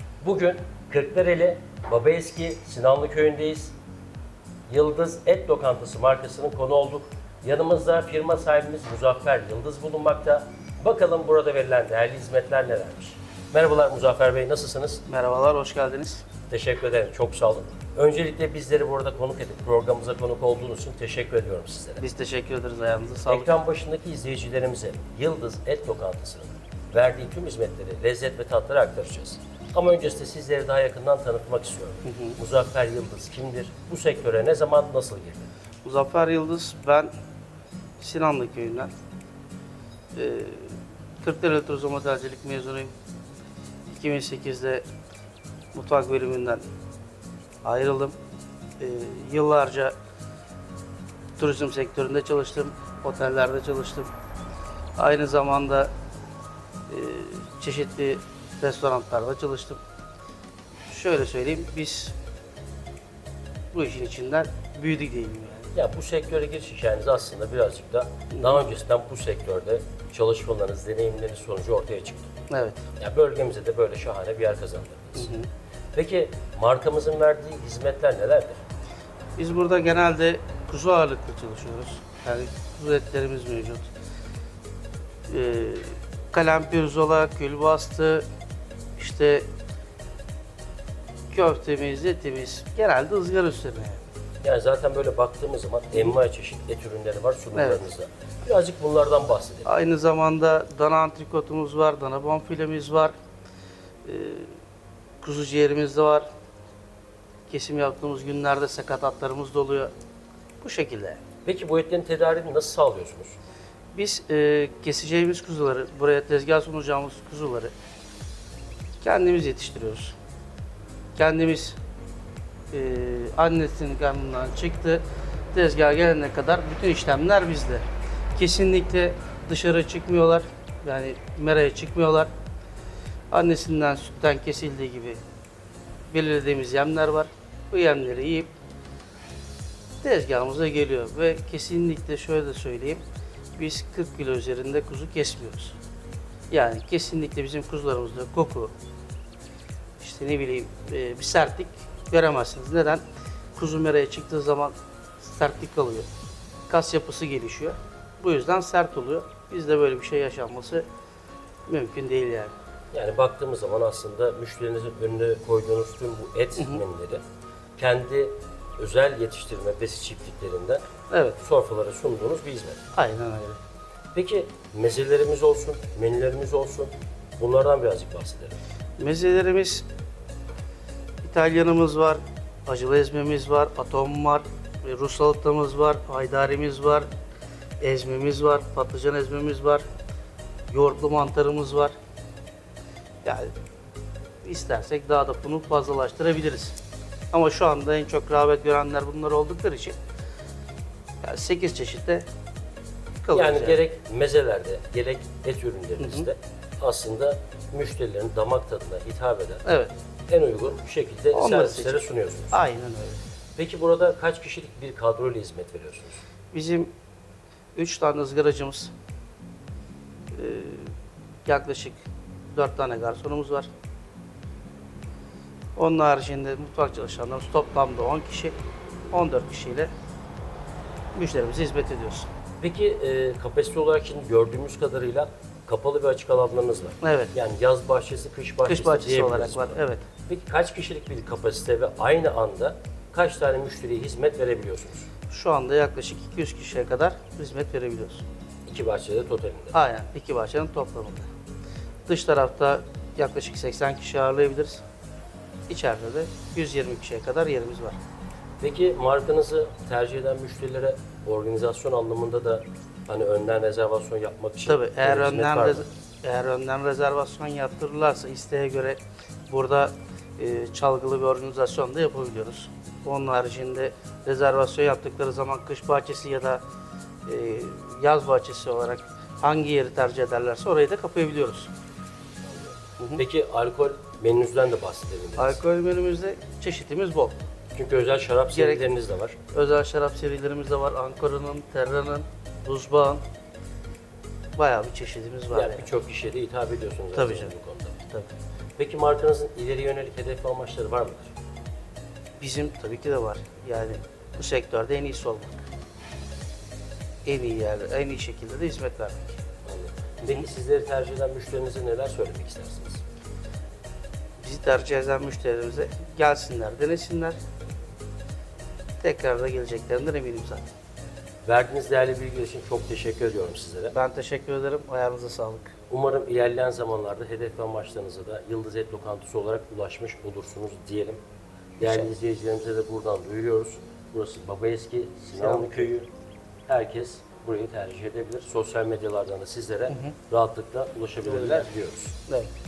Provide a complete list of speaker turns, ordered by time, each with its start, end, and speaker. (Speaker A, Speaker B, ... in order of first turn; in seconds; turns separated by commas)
Speaker A: 0.2-3.7, Speaker A: 4.7-15.0, Speaker B: 15.1-16.2, Speaker A: 16.5-22.0, Speaker B: 22.0-23.5, Speaker A: 23.3-35.5, Speaker B: 32.0-32.4, Speaker B: 35.8-37.1, Speaker B: 38.0-38.9, Speaker B: 40.1-42.9, Speaker B: 43.9-44.8, Speaker B: 45.7-46.6, Speaker B: 47.6-48.2, Speaker B: 48.8-49.9, Speaker B: 51.4-54.1, Speaker B: 55.0-55.9, Speaker B: 56.9-59.8, Speaker B: 60.9-62.1, Speaker B: 63.7-65.7, Speaker A: 65.7-72.3, Speaker B: 68.3-68.6, Speaker B: 72.5-72.8, Speaker A: 73.0-75.3, Speaker B: 75.2-75.5, Speaker A: 75.9-78.6, Speaker B: 79.4-83.9, Speaker B: 85.3-88.2, Speaker B: 89.0-89.5, Speaker B: 91.3-94.0, Speaker A: 94.4-99.7, Speaker B: 97.5-97.8, Speaker B: 99.6-103.1, Speaker B: 104.0-104.5, Speaker B: 105.2-106.2, Speaker B: 107.5-109.9, Speaker B: 110.6-111.2, Speaker A: 111.4-113.4, Speaker B: 113.9-117.7, Speaker B: 119.0-120.2, Speaker B: 121.2-121.8, Speaker B: 122.7-132.3, Speaker B: 133.3-135.2, Speaker B: 136.1-138.5, Speaker B: 140.0-143.0, Speaker B: 143.6-145.8, Speaker B: 146.5-148.7, Speaker B: 150.0-153.0, Speaker B: 153.5-156.1, Speaker B: 156.7-160.8, Speaker B: 161.7-162.5, Speaker A: 162.9-167.2, Speaker B: 166.6-166.8, Speaker A: 167.8-170.8, Speaker B: 171.1-171.4, Speaker A: 171.4-172.8, Speaker B: 172.9-173.6, Speaker A: 174.1-178.6, Speaker B: 179.0-179.8, Speaker B: 181.2-187.1, Speaker B: 187.8-189.8, Speaker B: 190.7-191.9, Speaker B: 193.2-193.5, Speaker B: 194.4-196.8, Speaker B: 197.3-200.0, Speaker B: 201.2-202.2, Speaker B: 203.2-203.8, Speaker A: 203.3-209.6, Speaker B: 206.0-206.3, Speaker B: 209.6-209.9, Speaker A: 210.3-212.6, Speaker B: 211.3-213.2, Speaker A: 213.6-216.2, Speaker B: 216.5-216.9, Speaker B: 217.7-218.9, Speaker B: 220.3-220.9, Speaker B: 221.4-222.0, Speaker B: 222.5-223.7, Speaker B: 225.8-228.6, Speaker B: 229.1-229.9, Speaker B: 231.1-232.3, Speaker A: 232.6-245.1, Speaker B: 237.0-237.3, Speaker B: 238.7-240.0, Speaker B: 245.3-248.2, Speaker A: 248.7-249.7, Speaker B: 249.7-251.3, Speaker B: 252.1-254.8, Speaker B: 255.7-258.0, Speaker A: 258.6-265.8, Speaker B: 264.7-276.6, Speaker B: 277.2-281.7, Speaker A: 282.4-285.6, Speaker B: 283.0-283.2, Speaker B: 285.4-287.4, Speaker A: 287.7-289.4, Speaker B: 288.5-288.9, Speaker B: 289.5-293.2, Speaker B: 294.6-295.9, Speaker A: 295.5-298.0, Speaker B: 297.1-297.5, Speaker B: 298.1-298.3, Speaker A: 298.8-301.3, Speaker B: 302.4-305.6, Speaker B: 307.2-309.4, Speaker A: 309.6-313.0, Speaker B: 314.4-317.4, Speaker B: 319.0-320.7, Speaker A: 321.4-323.9, Speaker B: 323.9-325.7, Speaker A: 325.9-331.2, Speaker A: 331.8-336.1, Speaker B: 331.8-332.1, Speaker B: 335.4-335.9, Speaker A: 336.7-342.1, Speaker B: 339.9-340.1, Speaker B: 341.3-341.7